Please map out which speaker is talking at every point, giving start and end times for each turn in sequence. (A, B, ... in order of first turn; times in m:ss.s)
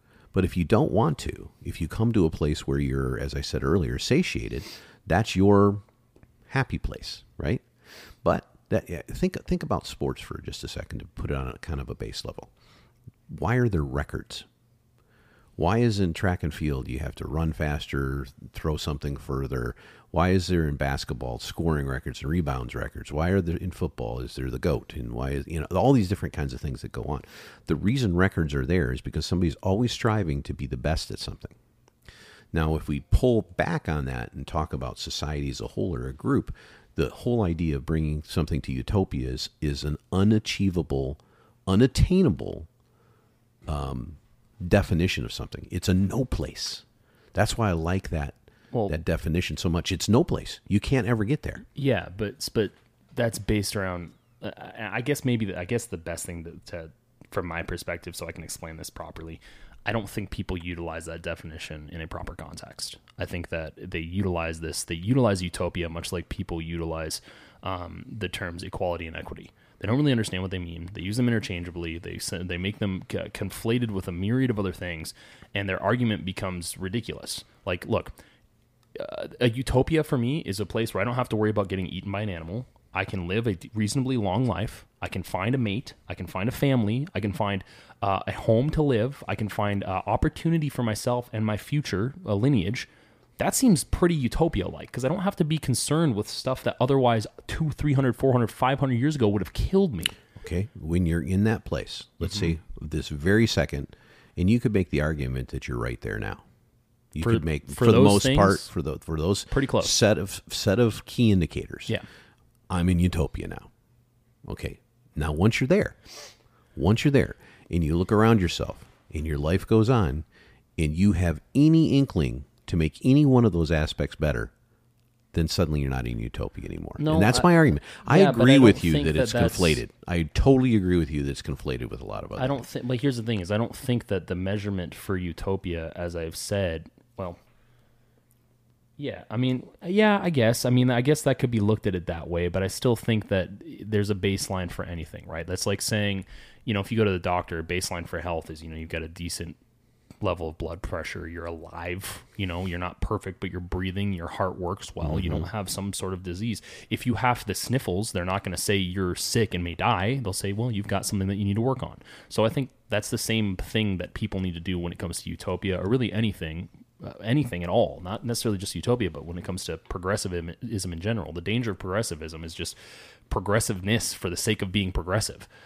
0:00.3-0:05.8 A
0:06.5-0:07.6 A
0:08.2-0:12.5 A
0:13.3-0:14.4 A
0:15.6-0:31.5 A
0:32.5-0:42.7 A
0:43.7-0:51.6 A
0:51.8-1:18.1 B
1:18.9-1:40.1 B
1:40.4-1:46.4 A
1:47.1-1:52.0 A
1:47.2-1:48.7 B
1:49.5-1:49.9 B
1:52.7-1:53.7 A
1:54.4-1:56.0 A
1:56.7-2:00.2 A
2:00.8-2:04.5 A
2:05.3-2:12.6 A
2:07.0-2:09.8 B
2:12.4-2:17.4 B
2:19.0-2:29.6 B
2:30.2-2:52.8 B
2:35.0-2:35.5 A
2:53.3-2:55.5 B